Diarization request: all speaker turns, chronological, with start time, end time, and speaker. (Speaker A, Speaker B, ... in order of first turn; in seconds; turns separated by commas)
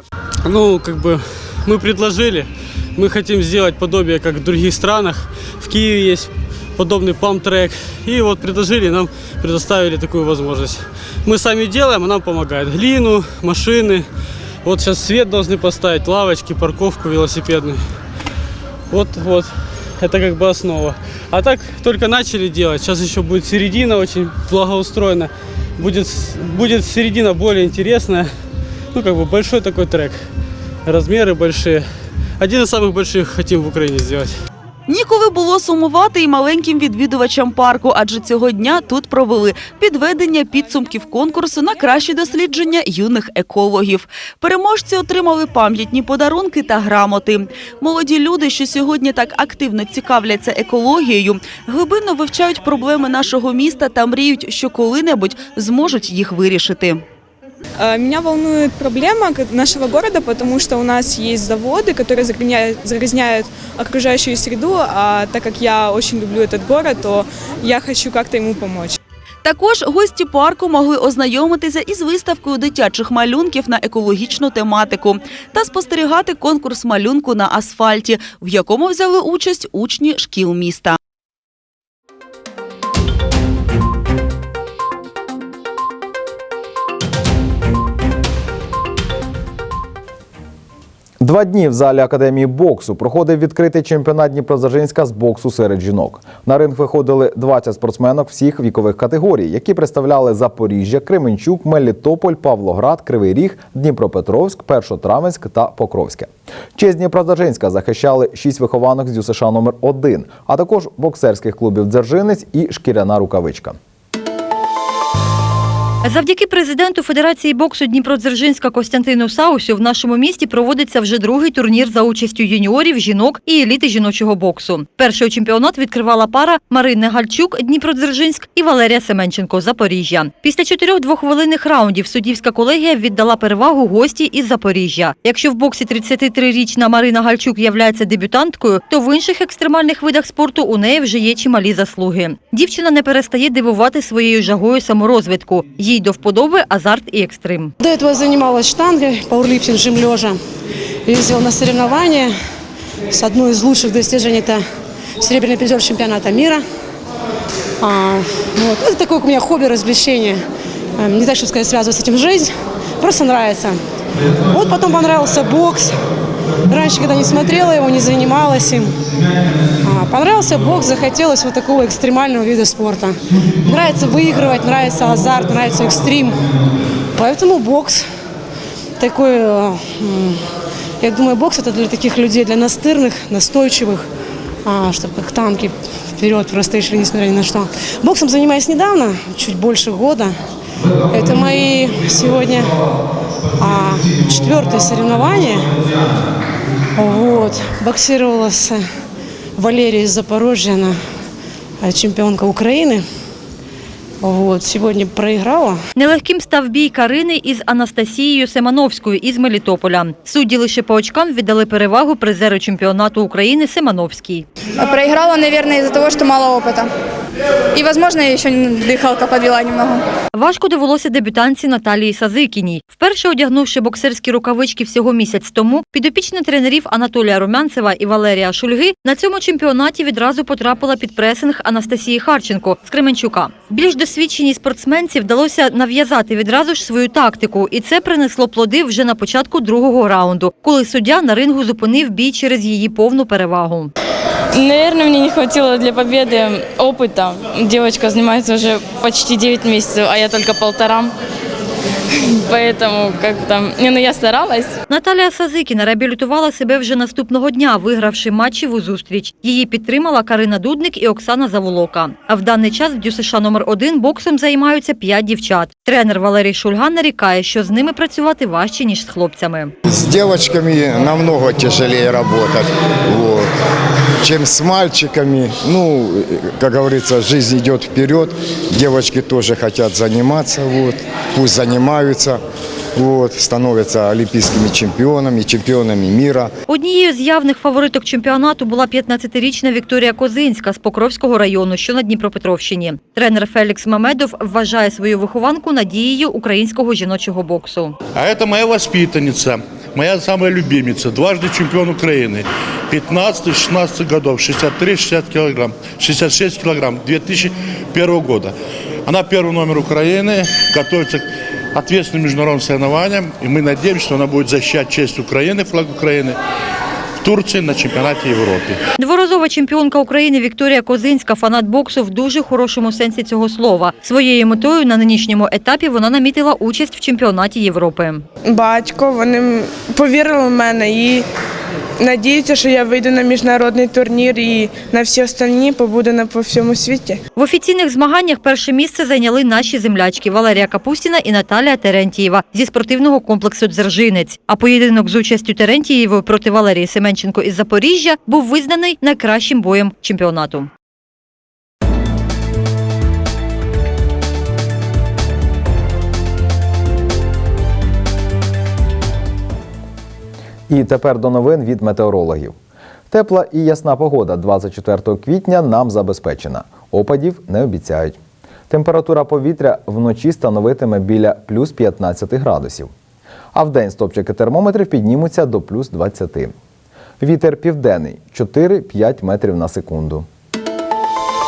Speaker A: 0.4-14.1, Speaker A: 14.6-17.8, Speaker A: 18.9-28.3, Speaker A: 28.9-30.3, Speaker A: 30.9-31.9, Speaker A: 32.4-34.3, Speaker B: 34.9-57.0, Speaker C: 57.8-69.0, Speaker B: 69.5-81.0, Speaker D: 91.2-113.8, Speaker E: 116.0-147.7, Speaker F: 147.8-150.4, Speaker F: 151.1-152.3, Speaker F: 153.1-154.6, Speaker F: 155.2-156.6, Speaker F: 157.8-160.4, Speaker F: 161.0-163.8, Speaker F: 164.5-165.9, Speaker F: 166.7-169.0, Speaker F: 169.8-176.4, Speaker F: 177.1-178.0, Speaker F: 179.0-180.4, Speaker F: 181.0-184.1, Speaker F: 184.6-190.3, Speaker F: 191.1-192.7, Speaker F: 193.6-195.7, Speaker F: 196.9-198.8, Speaker F: 199.6-201.0, Speaker F: 201.8-203.0, Speaker F: 204.2-205.8, Speaker E: 206.0-214.4, Speaker G: 214.8-216.9, Speaker G: 217.7-220.0, Speaker E: 220.3-243.9, Speaker H: 244.5-251.1, Speaker H: 252.5-254.8, Speaker E: 254.9-269.7, Speaker I: 269.9-273.5, Speaker I: 274.2-282.4, Speaker I: 283.0-286.5, Speaker E: 286.7-298.0, Speaker J: 298.2-308.5, Speaker J: 309.1-316.4, Speaker J: 317.2-318.8, Speaker E: 319.0-328.2, Speaker K: 328.5-331.2, Speaker K: 332.0-337.2, Speaker E: 337.4-350.7, Speaker D: 360.7-362.6, Speaker D: 363.1-368.2, Speaker D: 368.7-372.9, Speaker D: 373.5-376.5, Speaker D: 377.2-380.3